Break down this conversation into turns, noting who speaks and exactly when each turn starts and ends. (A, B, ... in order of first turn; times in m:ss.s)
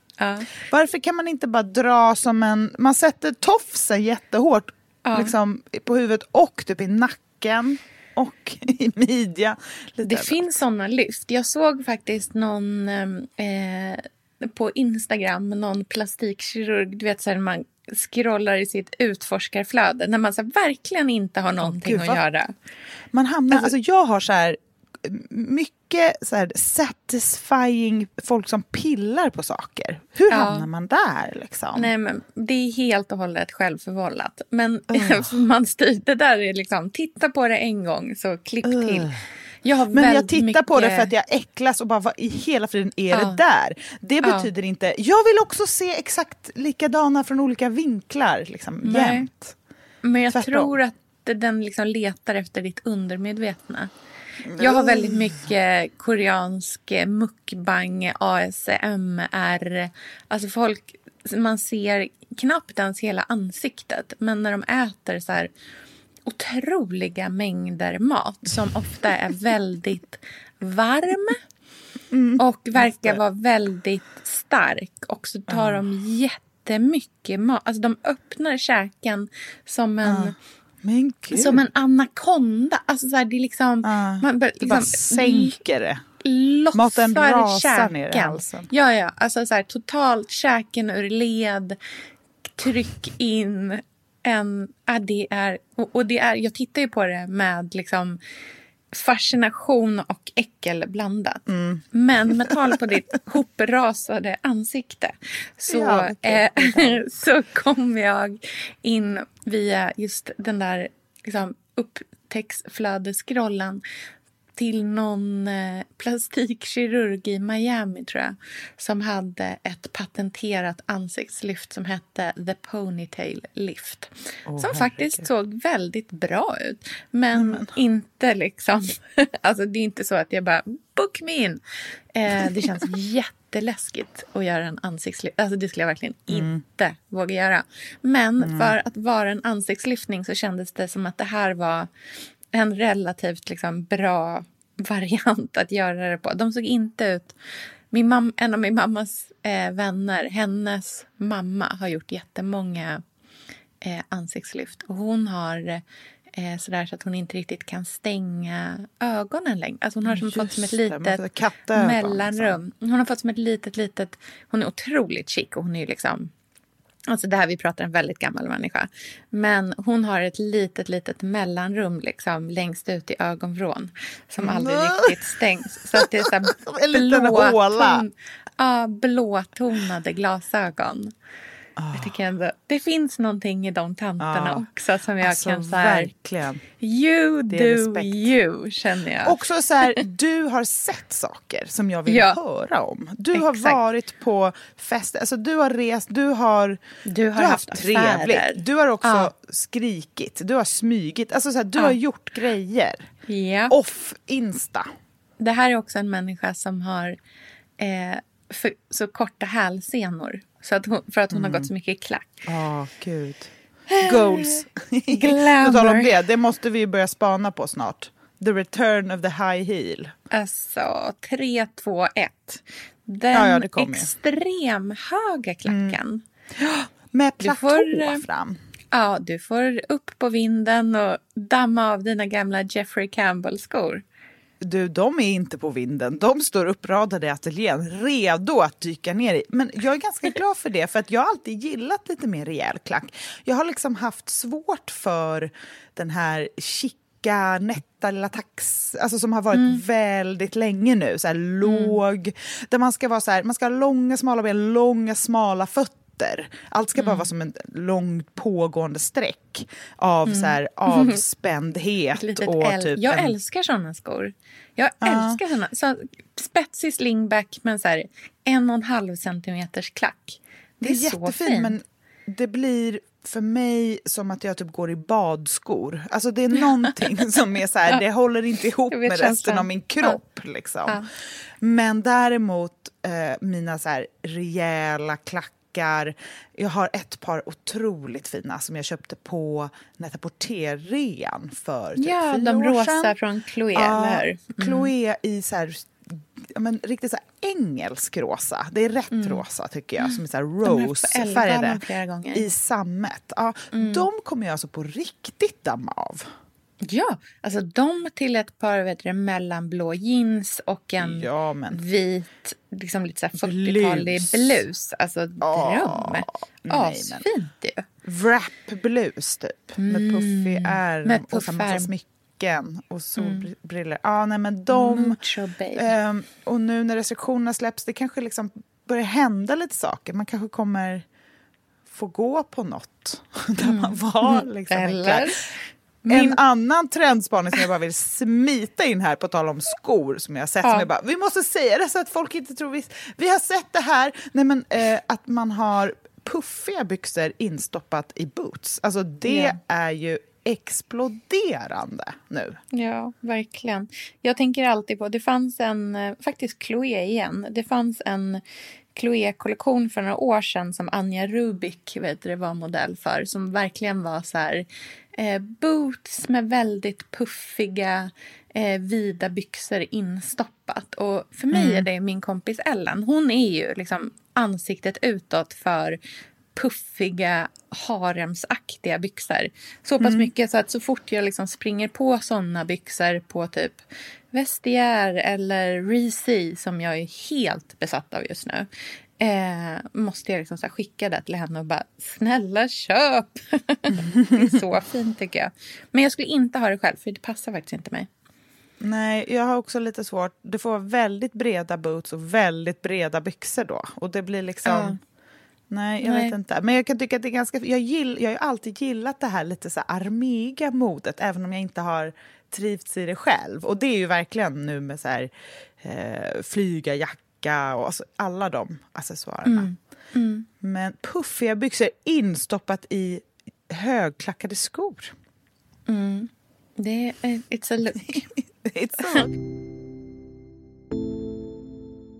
0:00.2-0:00.5 A
0:00.6-0:10.6 B
0:05.0-0:05.3 A
0:10.0-0:22.5 A
0:21.6-0:22.2 B
0:23.1-0:31.9 B
0:30.3-0:30.7 A
0:31.7-0:41.1 A
0:34.9-0:35.3 B
0:38.6-0:39.2 B
0:39.9-0:49.6 B
0:43.1-0:43.4 A
0:44.2-0:44.5 A
0:48.8-0:49.3 A
0:50.0-0:53.9 A
0:50.3-0:50.8 B
0:54.4-0:55.3 B
0:54.6-1:05.5 A
1:06.2-1:11.4 A
1:12.1-1:13.2 B
1:12.4-1:20.4 A
1:15.5-1:15.8 B
1:20.0-1:21.6 B
1:21.3-1:25.6 A
1:23.8-1:26.0 B
1:26.2-1:31.8 A
1:26.7-1:28.7 B
1:32.5-1:38.2 A
1:38.9-1:53.8 A
1:41.5-1:41.8 B
1:45.7-1:47.0 B
1:54.6-2:11.6 A
2:04.5-2:05.3 B
2:07.3-2:07.7 B
2:12.1-2:21.9 A
2:16.3-2:16.6 B
2:18.4-2:18.7 B
2:22.5-2:27.3 A
2:27.9-2:33.0 A
2:33.8-2:35.8 A
2:36.3-2:46.3 A
2:40.0-2:42.6 B
2:47.1-3:01.1 A
2:54.4-2:55.2 B
2:55.9-2:58.1 B
3:01.8-3:02.1 B
3:01.9-3:06.1 A
3:04.2-3:04.6 B
3:05.2-3:06.6 B
3:06.8-3:10.0 A
3:07.5-3:08.3 B
3:09.2-3:16.8 B
3:12.1-3:12.4 A
3:13.3-3:13.8 A
3:17.0-3:19.3 A
3:17.4-3:23.1 B
3:23.3-3:23.7 A
3:23.7-3:24.9 B
3:25.4-3:27.2 A
3:27.8-3:32.4 A
3:31.3-3:31.7 B
3:32.4-3:33.5 B
3:33.9-3:36.1 A
3:34.0-3:40.1 B
3:40.3-3:46.2 A
3:43.3-3:44.1 B
3:45.6-3:46.0 B
3:46.6-3:48.6 B
3:47.4-3:48.2 A
3:48.9-3:54.0 A
3:54.6-4:23.3 B
4:09.5-4:09.8 A
4:11.6-4:12.0 A
4:17.0-4:17.3 A
4:20.2-4:21.2 A
4:22.1-4:31.8 A
4:25.0-4:25.4 B
4:30.8-4:41.0 B
4:38.9-4:40.2 A
4:41.6-4:53.2 B
4:52.0-4:54.9 A
4:53.7-5:01.8 B
4:59.1-4:59.4 A
5:00.0-5:02.4 A
5:02.3-5:06.3 B
5:03.7-5:04.0 A
5:06.8-5:17.8 A
5:11.0-5:11.8 B
5:13.3-5:14.6 B
5:15.4-5:17.2 B
5:18.0-5:25.2 B
5:19.8-5:21.9 A
5:23.2-5:23.5 A
5:24.7-5:25.9 A
5:25.7-5:31.0 B
5:31.9-5:35.3 B
5:33.6-5:36.4 A
5:36.1-5:52.6 B
5:49.2-5:49.6 A
5:52.7-5:58.4 A
5:58.9-6:16.0 A
6:11.5-6:11.8 B
6:16.5-6:38.1 A
6:20.0-6:20.3 B
6:33.9-6:34.5 B
6:38.8-6:45.0 B
6:44.6-6:45.0 A
6:45.7-6:59.7 B
6:46.0-6:46.3 A
6:59.4-7:00.5 A
7:00.6-7:05.1 B
7:05.9-7:08.2 A
7:08.1-7:09.3 B